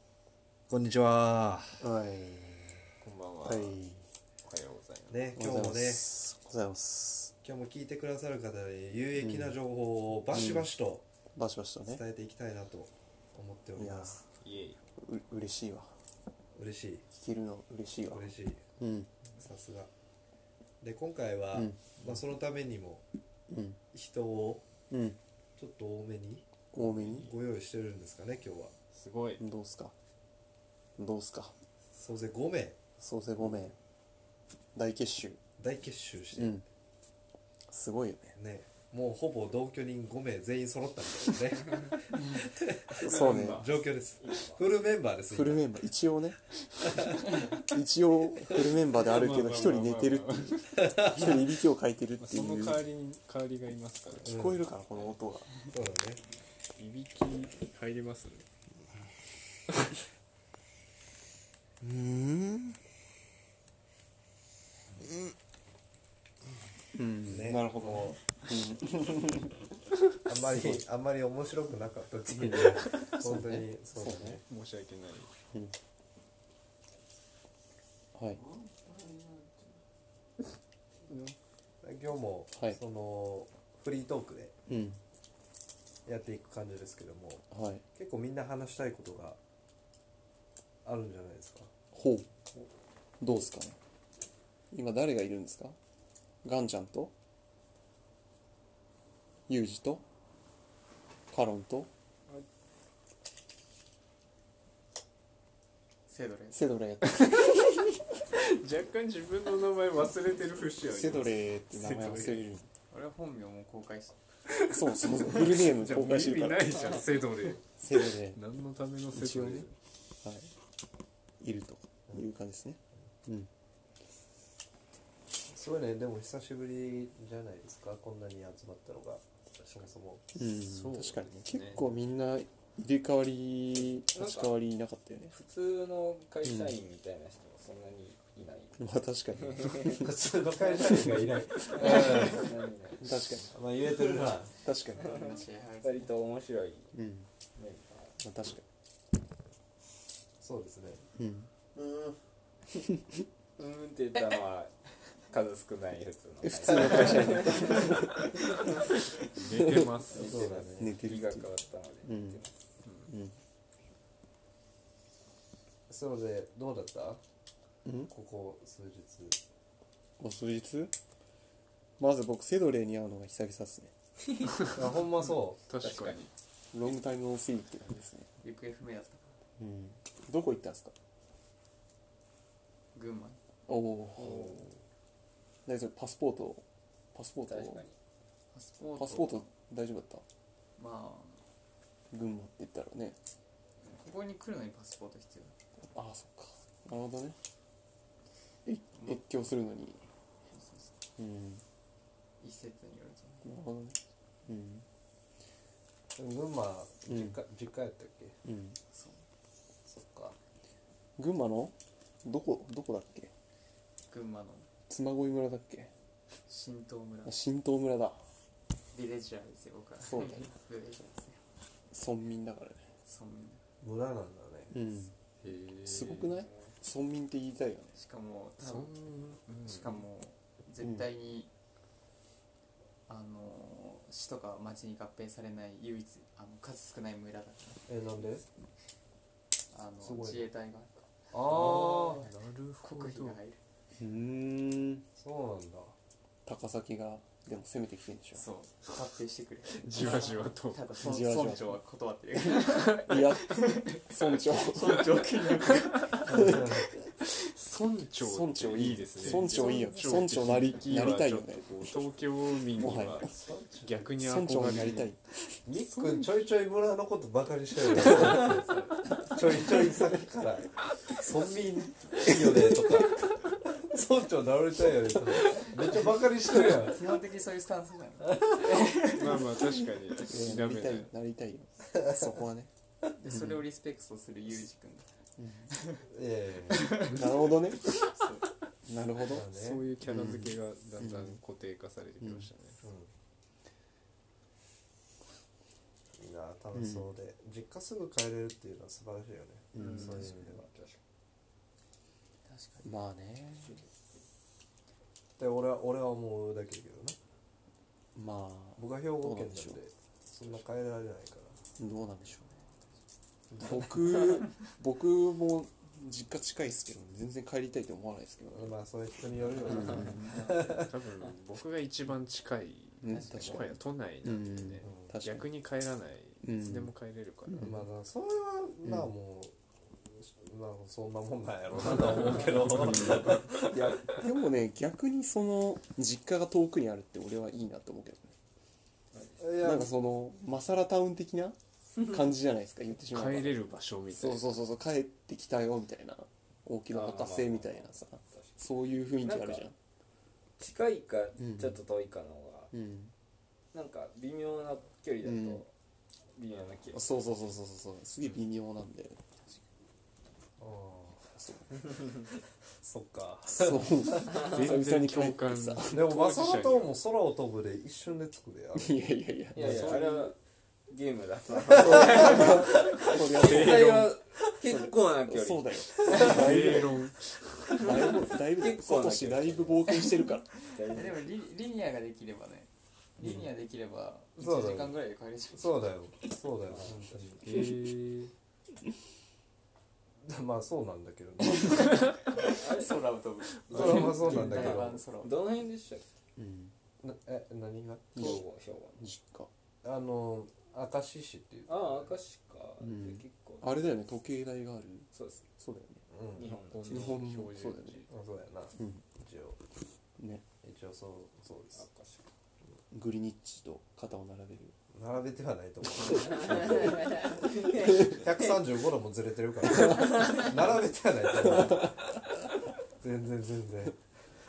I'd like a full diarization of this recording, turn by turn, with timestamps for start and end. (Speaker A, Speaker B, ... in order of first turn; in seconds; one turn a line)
Speaker A: 0.7-1.9
Speaker B: 1.8-2.6
Speaker C: 3.0-3.8
Speaker B: 3.4-4.0
Speaker C: 4.4-5.3
Speaker A: 5.1-6.1
Speaker B: 5.3-7.3
Speaker A: 7.4-11.0
Speaker B: 9.2-9.6
Speaker B: 10.3-10.7
Speaker B: 11.3-12.0
Speaker A: 11.8-14.2
Speaker B: 13.8-14.2
Speaker C: 14.4-14.8
Speaker B: 15.0-15.9
Speaker A: 16.6-17.1
Speaker B: 17.1-19.1
Speaker A: 18.1-18.6
Speaker A: 19.4-19.9
Speaker A: 20.8-23.0
Speaker B: 21.5-21.9
Speaker B: 23.5-23.8
Speaker A: 23.9-24.6
Speaker B: 24.9-25.2
Speaker A: 25.6-28.7
Speaker B: 26.7-27.3
Speaker C: 28.9-29.4
Speaker B: 29.4-29.9
Speaker B: 31.0-31.5
Speaker A: 31.9-32.8
Speaker B: 33.0-33.7
Speaker A: 33.4-33.7
Speaker B: 34.7-35.4
Speaker A: 35.6-36.6
Speaker B: 36.3-36.6
Speaker B: 37.7-38.4
Speaker A: 38.4-45.6
Speaker C: 42.9-43.7
Speaker B: 43.0-43.7
Speaker D: 44.2-44.7
Speaker B: 45.3-52.8
Speaker C: 48.9-50.9
Speaker A: 50.8-51.4
Speaker C: 52.2-54.4
Speaker A: 54.2-54.6
Speaker B: 54.2-55.5
Speaker A: 55.7-56.2
Speaker C: 56.8-58.4
Speaker B: 61.8-62.8
Speaker B: 66.9-69.6
Speaker A: 67.3-68.2
Speaker A: 70.2-74.4
Speaker B: 72.4-74.4
Speaker C: 74.4-75.3
Speaker B: 78.1-78.4
Speaker A: 81.8-84.5
Speaker B: 84.7-85.0
Speaker A: 86.0-89.4
Speaker B: 87.5-87.8
Speaker A: 90.8-91.7
Speaker B: 91.9-92.3
Speaker B: 93.2-93.8
Speaker B: 94.7-95.8
Speaker B: 96.4-97.1
Speaker B: 99.5-100.0
Speaker B: 101.3-101.9
Speaker E: 106.1-106.6
Speaker B: 106.5-108.0
Speaker C: 107.2-107.6
Speaker C: 108.3-112.4
Speaker B: 110.9-112.7
Speaker E: 112.9-114.2
Speaker C: 114.5-119.7
Speaker B: 114.7-116.9
Speaker B: 117.8-118.4
Speaker B: 119.1-119.7
Speaker B: 120.2-120.5
Speaker B: 121.4-123.5
Speaker A: 125.5-130.2
Speaker B: 130.3-135.4
Speaker C: 130.5-131.8
Speaker D: 133.9-134.5
Speaker D: 135.3-140.0
Speaker B: 136.4-136.7
Speaker B: 138.8-140.1
Speaker A: 139.9-142.5
Speaker D: 140.6-143.0
Speaker E: 141.8-142.5
Speaker B: 141.8-142.3
Speaker B: 143.0-143.5
Speaker A: 143.5-144.5
Speaker B: 144.6-145.1
Speaker E: 145.0-146.1
Speaker D: 145.0-145.3
Speaker D: 145.8-146.9
Speaker B: 146.9-147.3
Speaker D: 147.5-148.1
Speaker B: 148.2-148.6
Speaker A: 150.4-151.1
Speaker B: 151.2-151.5
Speaker D: 151.8-152.1
Speaker D: 153.6-158.8
Speaker B: 156.4-158.4
Speaker A: 156.7-157.5
Speaker C: 159.3-160.4
Speaker B: 159.5-160.0
Speaker D: 160.1-162.6
Speaker A: 160.1-160.9
Speaker B: 160.8-161.5
Speaker B: 162.0-162.4
Speaker C: 162.8-163.1
Speaker B: 163.1-163.4
Speaker A: 165.9-167.2
Speaker B: 167.8-168.1
Speaker A: 168.1-169.4
Speaker B: 170.2-170.9
Speaker B: 172.0-173.9
Speaker D: 174.3-174.7
Speaker C: 174.6-176.3
Speaker A: 174.7-175.6
Speaker D: 175.8-176.2
Speaker B: 176.7-178.3
Speaker E: 178.4-179.4
Speaker B: 179.6-180.9
Speaker E: 182.9-183.4
Speaker B: 183.7-184.6
Speaker B: 185.7-187.8
Speaker D: 187.5-187.9
Speaker E: 188.5-189.5
Speaker B: 188.9-190.2
Speaker E: 190.8-191.4
Speaker B: 192.1-193.2
Speaker E: 193.8-195.6
Speaker B: 195.8-197.3
Speaker B: 198.6-200.0
Speaker E: 198.9-199.2
Speaker E: 200.5-200.9
Speaker B: 201.2-201.6
Speaker E: 202.4-203.6
Speaker B: 203.4-204.8
Speaker A: 206.2-208.3
Speaker B: 207.1-207.4
Speaker B: 208.4-208.8
Speaker E: 208.9-209.2
Speaker A: 209.9-210.3
Speaker B: 211.2-213.3
Speaker E: 214.1-214.7
Speaker B: 214.9-215.9
Speaker E: 216.5-217.4
Speaker B: 217.2-218.2
Speaker E: 218.9-221.4
Speaker B: 220.1-220.4
Speaker B: 221.9-222.8
Speaker E: 223.0-223.6
Speaker A: 223.8-224.7
Speaker B: 224.7-225.1
Speaker C: 225.4-226.3
Speaker B: 225.8-227.9
Speaker E: 227.9-228.9
Speaker C: 228.6-230.0
Speaker E: 229.7-231.5
Speaker E: 233.1-237.9
Speaker A: 237.9-238.4
Speaker E: 239.7-243.6
Speaker A: 240.0-240.5
Speaker A: 241.3-242.2
Speaker C: 241.5-243.4
Speaker B: 244.0-245.1
Speaker A: 245.2-245.9
Speaker B: 246.4-248.4
Speaker E: 248.3-256.6
Speaker C: 249.7-250.9
Speaker B: 251.0-251.8
Speaker B: 252.6-255.1
Speaker C: 255.6-256.2
Speaker A: 256.2-256.9
Speaker B: 256.2-256.9
Speaker C: 257.2-265.1
Speaker B: 258.2-262.1
Speaker E: 259.2-260.2
Speaker B: 262.7-263.3
Speaker A: 263.3-264.1
Speaker B: 264.2-265.2
Speaker A: 265.6-277.0
Speaker C: 265.8-266.3
Speaker E: 276.5-279.5
Speaker C: 279.0-281.1
Speaker B: 280.2-282.7
Speaker A: 281.9-282.3
Speaker E: 283.2-285.1
Speaker B: 283.2-283.6
Speaker B: 285.4-285.7
Speaker E: 285.7-286.1
Speaker A: 286.1-287.2
Speaker E: 286.7-288.5
Speaker B: 286.8-287.9
Speaker B: 288.8-289.4
Speaker A: 289.2-289.9
Speaker C: 289.5-292.8
Speaker B: 290.0-291.4
Speaker B: 292.2-292.5
Speaker A: 292.8-293.1
Speaker A: 296.1-300.7
Speaker B: 296.7-297.1
Speaker B: 299.7-300.4
Speaker D: 299.8-301.0
Speaker E: 302.4-302.9
Speaker B: 302.8-303.8
Speaker D: 303.6-304.2
Speaker A: 305.4-307.2
Speaker B: 308.1-309.8
Speaker A: 308.8-311.6
Speaker B: 311.8-312.5
Speaker A: 313.5-314.4
Speaker B: 313.6-318.8
Speaker A: 318.5-321.0
Speaker B: 319.6-320.3
Speaker C: 319.9-327.7
Speaker B: 323.0-325.5
Speaker E: 323.1-323.7
Speaker A: 324.8-325.1
Speaker B: 326.4-326.9
Speaker B: 327.5-327.8
Speaker A: 327.6-334.0
Speaker B: 328.8-329.1
Speaker C: 332.0-333.5
Speaker D: 333.6-334.2
Speaker B: 334.1-338.3
Speaker D: 339.1-339.4
Speaker A: 339.4-339.9
Speaker B: 339.6-349.7
Speaker D: 341.9-342.2
Speaker C: 343.1-344.5
Speaker D: 346.9-349.6
Speaker D: 350.6-352.7
Speaker B: 351.4-351.8
Speaker B: 352.7-353.1
Speaker D: 353.7-355.7
Speaker B: 355.2-355.6
Speaker D: 356.3-357.0
Speaker B: 356.9-359.2
Speaker A: 360.6-361.3
Speaker B: 361.4-361.7
Speaker A: 362.8-364.4
Speaker B: 363.5-366.1
Speaker D: 364.3-364.7
Speaker C: 364.3-367.0
Speaker A: 365.9-368.9
Speaker B: 368.7-370.0
Speaker A: 369.5-370.3
Speaker D: 369.5-370.4
Speaker D: 370.9-376.4
Speaker B: 371.7-377.2
Speaker A: 371.8-372.2
Speaker C: 373.4-374.1
Speaker C: 376.1-377.9
Speaker D: 377.7-379.9
Speaker B: 377.7-380.5
Speaker D: 380.6-381.3
Speaker E: 380.8-385.9
Speaker A: 383.2-383.5
Speaker A: 384.4-384.9
Speaker A: 385.5-387.4
Speaker D: 386.7-387.0
Speaker C: 387.4-388.3
Speaker A: 390.2-392.1
Speaker E: 391.5-395.4
Speaker D: 392.4-393.0
Speaker D: 393.7-396.2
Speaker A: 393.7-395.0
Speaker B: 396.4-396.7
Speaker A: 397.0-398.4
Speaker B: 398.1-398.4
Speaker D: 398.1-399.0
Speaker B: 399.0-399.5
Speaker A: 399.8-402.1
Speaker D: 401.7-403.8
Speaker B: 402.8-406.0
Speaker D: 405.1-405.5
Speaker A: 406.1-406.5
Speaker D: 406.3-407.3
Speaker C: 406.6-408.1
Speaker B: 406.9-408.0
Speaker A: 408.1-409.6
Speaker B: 408.8-409.0
Speaker B: 410.2-410.4
Speaker A: 410.6-411.8
Speaker D: 411.7-412.2
Speaker B: 412.9-414.7
Speaker A: 414.9-422.2
Speaker D: 416.1-418.3
Speaker D: 419.8-420.6
Speaker A: 423.0-424.0